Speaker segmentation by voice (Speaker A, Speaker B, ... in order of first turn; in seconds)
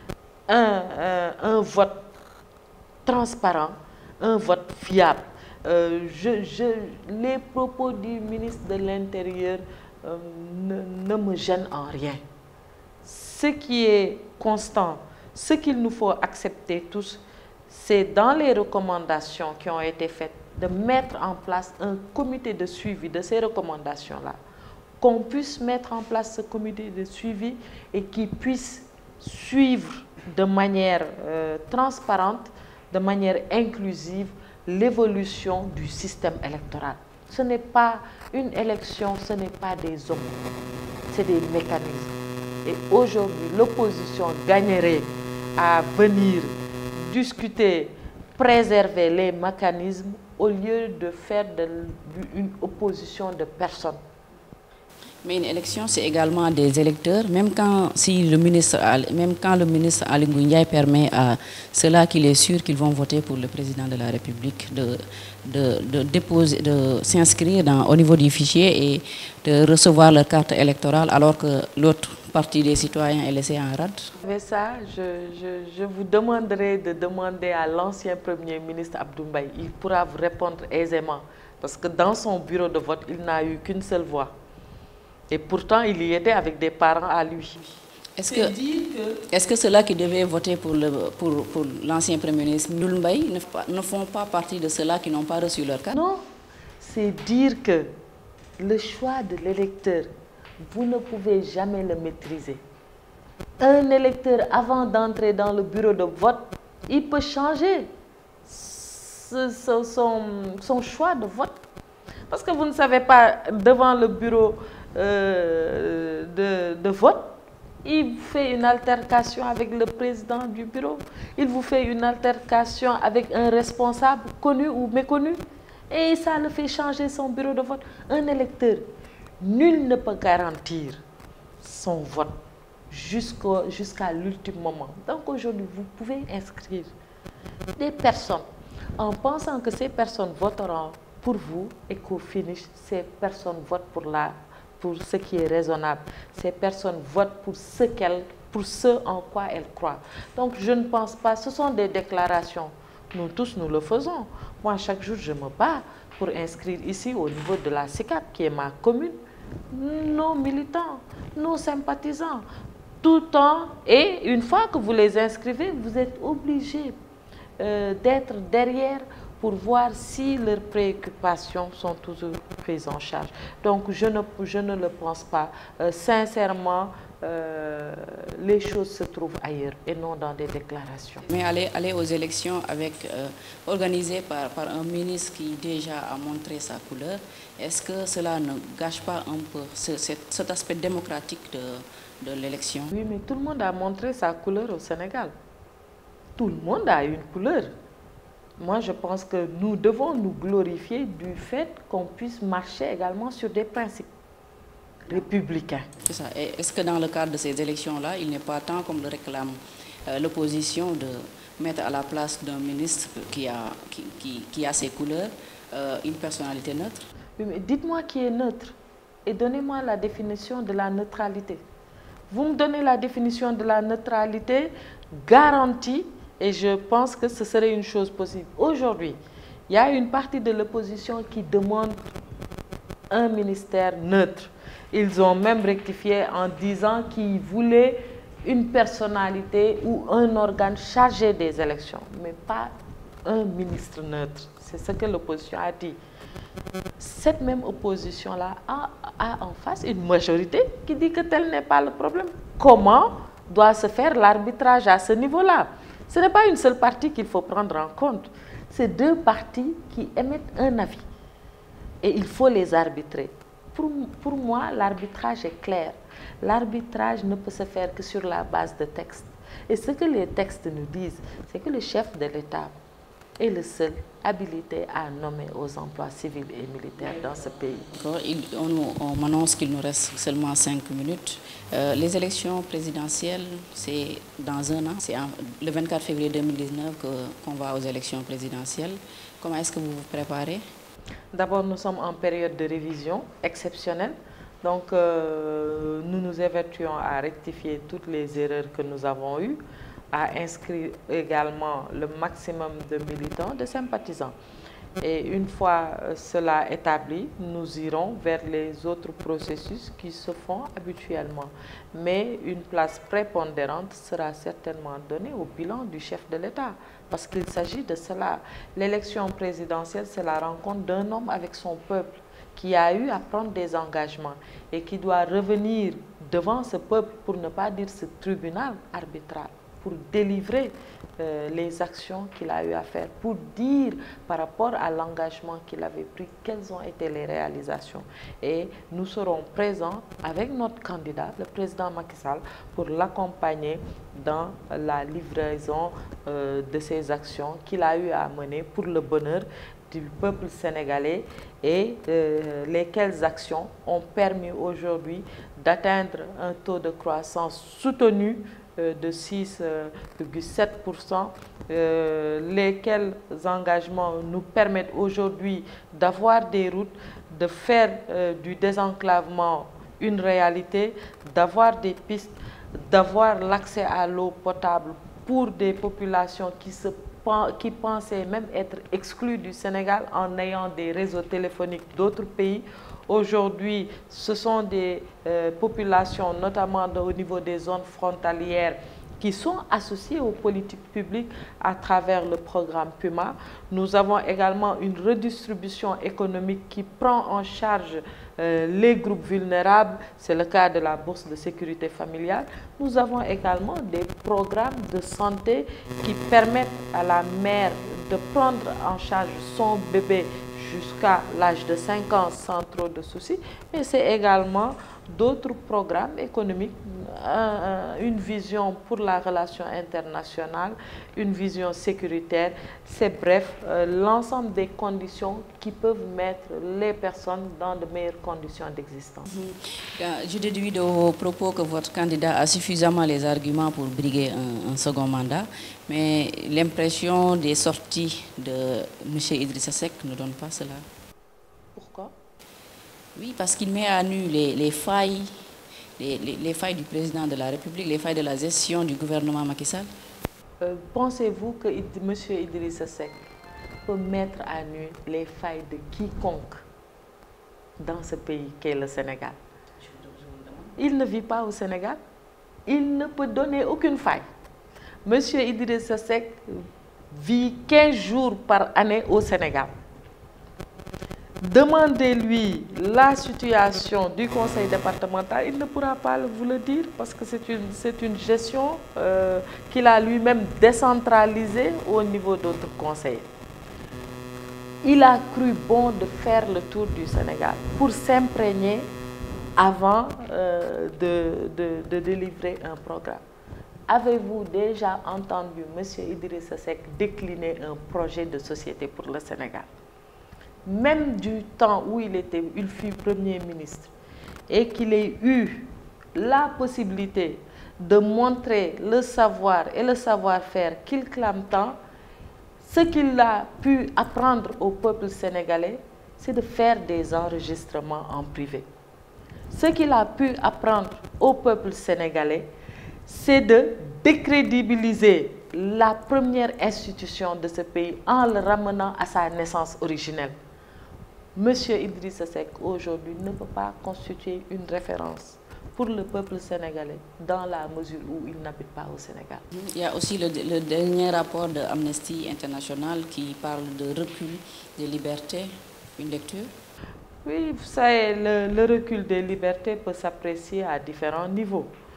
Speaker A: 0.5-2.1, 3.1-12.2, 13.0-24.4, 25.0-40.5, 41.1-54.0, 74.2-84.3, 85.3-87.6, 88.3-89.2, 95.9-96.2, 96.8-97.9, 98.6-102.6, 103.6-107.9, 108.5-111.6, 112.3-128.9, 129.4-131.0, 131.6-132.4, 132.9-136.9, 137.8-138.4, 139.0-159.2, 159.7-162.5, 163.0-167.0, 167.6-181.2, 192.9-195.3, 196.4-197.7, 198.6-204.1, 205.1-205.9, 217.4-221.6, 222.3-232.1, 233.1-242.7, 243.2-246.0, 247.0-261.1, 262.0-272.7, 273.4-277.9, 291.3-299.6, 300.1-304.4, 305.0-429.3, 441.8-442.1, 450.6-453.2, 453.9-456.6, 457.8-459.4, 460.8-462.0, 462.7-464.2, 465.1-469.7, 471.4-483.3, 484.8-488.9, 489.6-493.2, 493.9-499.7, 500.7-503.9, 504.5-511.8, 512.6-518.7, 519.5-522.5, 523.1-530.4, 531.4-539.4, 547.2-551.7
Speaker B: 55.2-74.1, 88.2-88.6, 89.2-96.0, 181.3-192.9, 206.1-217.1, 277.8-290.6, 429.3-440.9, 443.1-445.3, 446.0-449.9, 459.8-460.7, 539.5-546.5